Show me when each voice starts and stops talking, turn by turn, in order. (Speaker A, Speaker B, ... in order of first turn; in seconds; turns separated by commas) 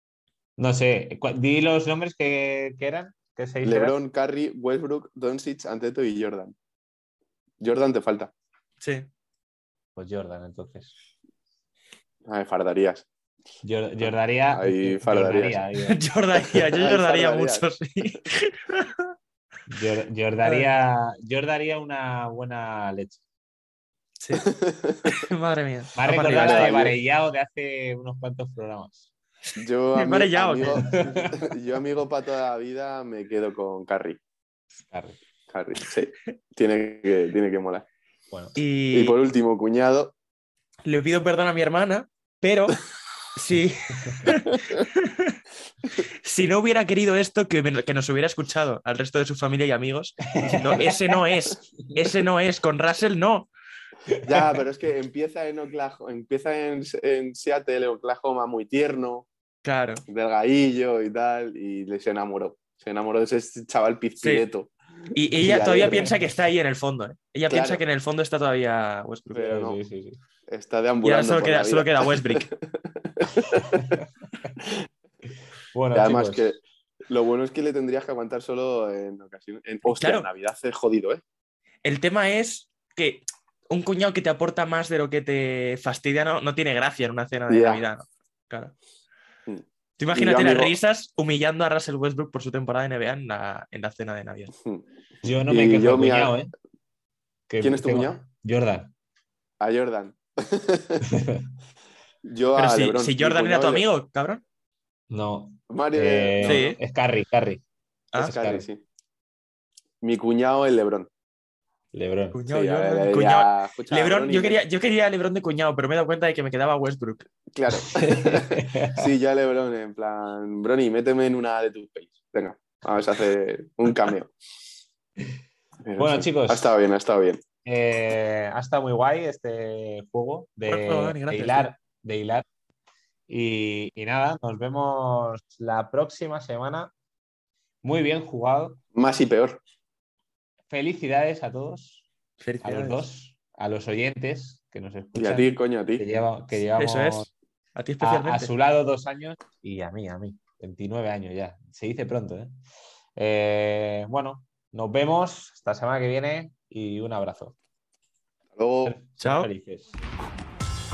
Speaker A: 0.6-3.9, Speaker B: 3.6-6.5, Speaker B: 7.6-8.3, Speaker C: 8.8-9.1, Speaker A: 9.9-10.9, Speaker B: 12.3-13.1, Speaker A: 13.6-16.0, Speaker B: 14.5-15.6, Speaker C: 15.8-19.1, Speaker B: 16.5-17.8, Speaker A: 19.7-23.2, Speaker C: 20.4-20.7, Speaker C: 24.2-24.4, Speaker B: 24.3-25.1, Speaker C: 25.1-26.8, Speaker A: 25.9-29.1, Speaker B: 26.2-26.9, Speaker B: 29.6-34.2, Speaker C: 29.9-30.9, Speaker A: 30.8-31.4, Speaker A: 34.9-35.2, Speaker B: 35.5-37.9, Speaker A: 38.3-38.6, Speaker C: 38.5-39.2, Speaker B: 38.9-40.1, Speaker C: 40.8-42.8, Speaker C: 43.3-45.4, Speaker C: 46.1-53.5, Speaker A: 50.3-51.2, Speaker A: 54.1-54.4, Speaker B: 54.2-59.3, Speaker C: 59.6-60.0, Speaker B: 60.1-64.7, Speaker C: 64.2-64.5, Speaker C: 65.1-69.5, Speaker B: 65.3-66.1, Speaker B: 67.5-67.8, Speaker B: 69.3-69.8, Speaker A: 69.3-70.2, Speaker B: 70.5-73.8, Speaker C: 71.0-72.5, Speaker A: 73.5-74.0, Speaker B: 74.6-74.8, Speaker A: 75.7-76.6, Speaker B: 75.9-81.2, Speaker C: 79.9-80.3, Speaker C: 81.8-88.7, Speaker B: 87.5-87.8, Speaker B: 89.5-90.7, Speaker C: 90.0-94.5, Speaker A: 95.2-96.5, Speaker B: 95.5-96.3, Speaker A: 97.5-98.9, Speaker B: 97.6-98.2, Speaker B: 99.6-101.1, Speaker A: 101.0-101.5, Speaker B: 102.2-103.8, Speaker C: 102.5-104.4, Speaker A: 105.1-107.6, Speaker B: 105.7-106.7, Speaker C: 106.4-106.8, Speaker C: 108.1-108.4, Speaker B: 108.2-108.8, Speaker A: 108.2-108.7, Speaker B: 110.0-111.1, Speaker A: 111.9-112.4, Speaker C: 112.3-117.3, Speaker B: 112.5-114.6, Speaker B: 117.5-124.3, Speaker A: 117.9-119.1, Speaker B: 125.8-127.4, Speaker A: 126.0-126.7, Speaker A: 127.6-132.4, Speaker C: 130.7-131.7, Speaker A: 133.3-136.9, Speaker A: 137.8-138.8, Speaker B: 138.9-139.6, Speaker A: 140.7-142.0, Speaker C: 142.4-143.0, Speaker A: 142.6-147.3, Speaker B: 145.1-146.0, Speaker C: 146.7-148.5, Speaker A: 148.0-152.6, Speaker A: 153.2-157.5, Speaker B: 158.5-158.9, Speaker A: 158.8-159.9, Speaker C: 159.2-159.5